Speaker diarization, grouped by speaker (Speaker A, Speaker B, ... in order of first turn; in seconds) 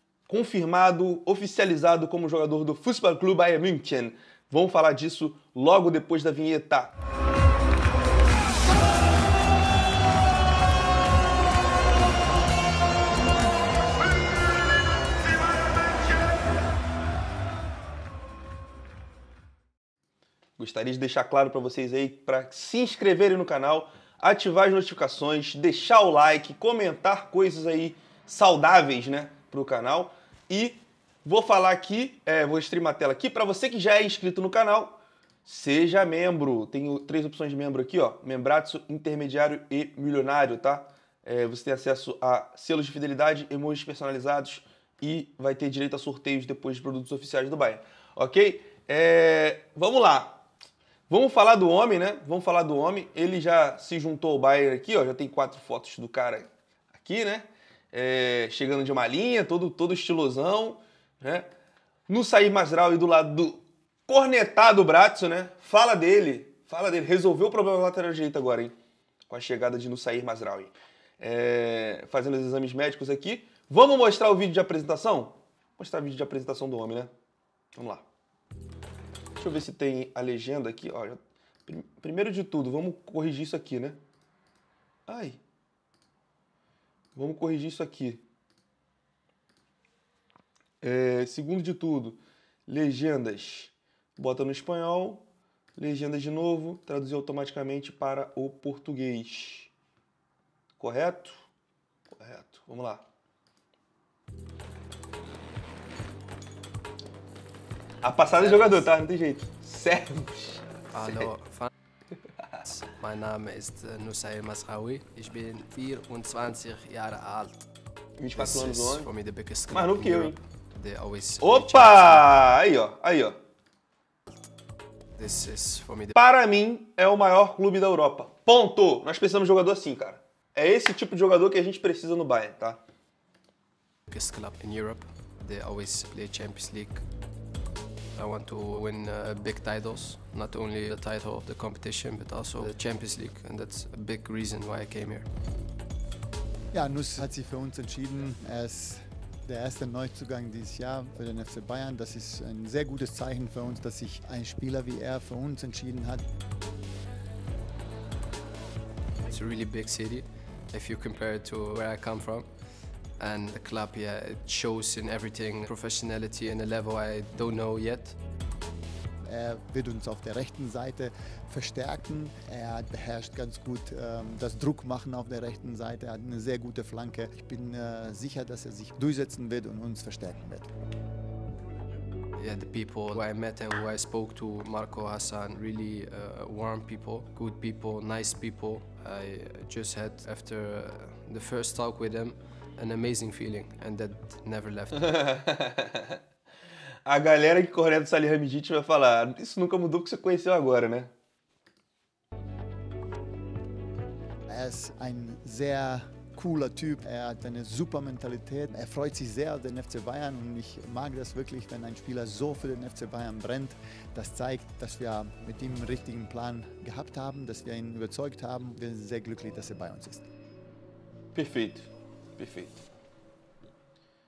Speaker A: 0.3-6.9, 20.6-50.4, 51.1-61.5, 62.1-68.7, 69.3-77.1, 77.7-78.0, 79.3-84.0, 85.1-85.4, 87.1-88.2, 90.8-95.2, 95.8-99.7, 100.8-101.5, 102.2-103.0, 108.0-111.3, 118.2-119.1, 119.7-120.4, 121.4-123.4, 126.1-132.8, 194.9-196.2, 197.1-201.1, 221.3-222.8
Speaker B: 108.4-108.8, 110.9-111.7, 112.6-117.6, 118.3-122.4, 125.2-126.2, 134.1-137.0, 138.2-145.3, 159.3-162.5, 163.2-168.2, 182.4-195.2
Speaker C: 146.7-156.2, 169.2-180.7, 204.5-220.2